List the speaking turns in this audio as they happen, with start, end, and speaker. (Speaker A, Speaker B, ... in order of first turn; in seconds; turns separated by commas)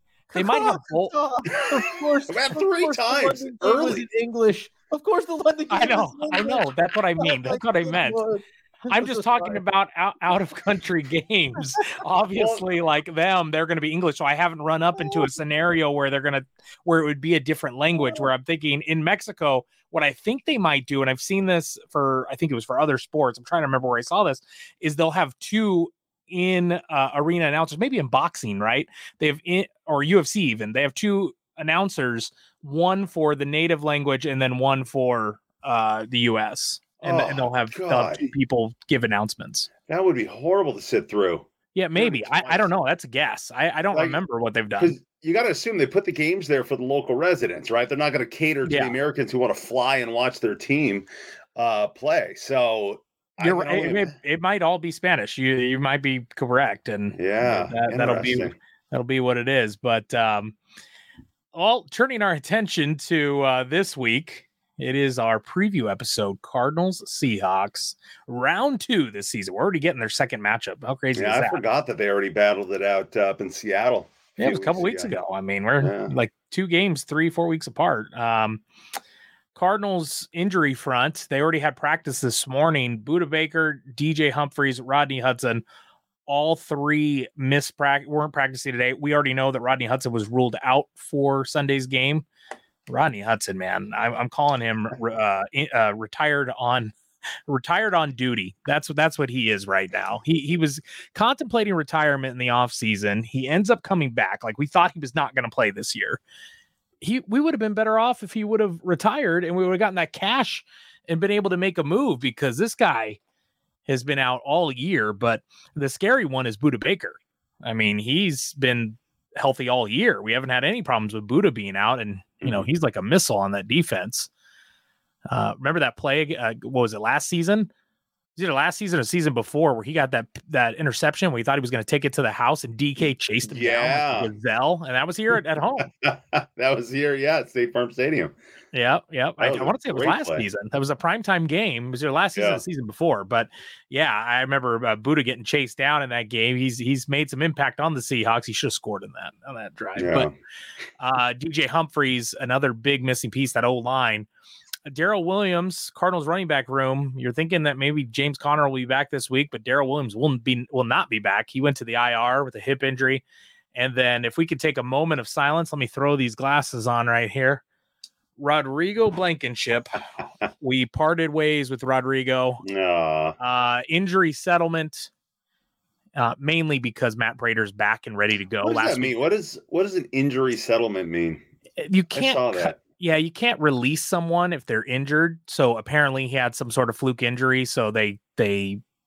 Speaker A: 0.3-9.6, Speaker B: 0.3-1.1, Speaker C: 2.3-4.0, Speaker B: 5.7-8.2, Speaker B: 8.9-39.7, Speaker C: 12.3-12.6, Speaker A: 15.0-15.2, Speaker C: 37.0-38.3, Speaker C: 39.9-42.7, Speaker B: 41.7-44.9, Speaker C: 43.9-44.2, Speaker C: 44.8-54.1, Speaker B: 48.6-49.0, Speaker B: 53.4-60.5, Speaker C: 57.1-58.5, Speaker B: 61.5-71.6, Speaker C: 71.1-75.1, Speaker B: 74.4-78.6, Speaker C: 75.8-76.1, Speaker B: 79.5-85.6, Speaker B: 86.3-92.2, Speaker B: 92.9-96.9, Speaker B: 97.5-106.2, Speaker B: 107.0-113.2, Speaker B: 113.8-124.3, Speaker B: 125.3-127.7, Speaker B: 128.3-135.9, Speaker C: 133.5-134.3, Speaker C: 136.0-138.3, Speaker B: 138.7-150.3, Speaker C: 139.4-140.4, Speaker C: 142.3-142.6, Speaker C: 150.0-150.3, Speaker B: 151.0-154.3, Speaker B: 154.9-167.6, Speaker B: 168.4-170.0, Speaker B: 170.6-172.6, Speaker C: 172.6-173.3, Speaker B: 173.4-175.1, Speaker B: 176.2-179.2, Speaker C: 178.6-181.4, Speaker B: 181.8-188.8, Speaker C: 182.1-182.8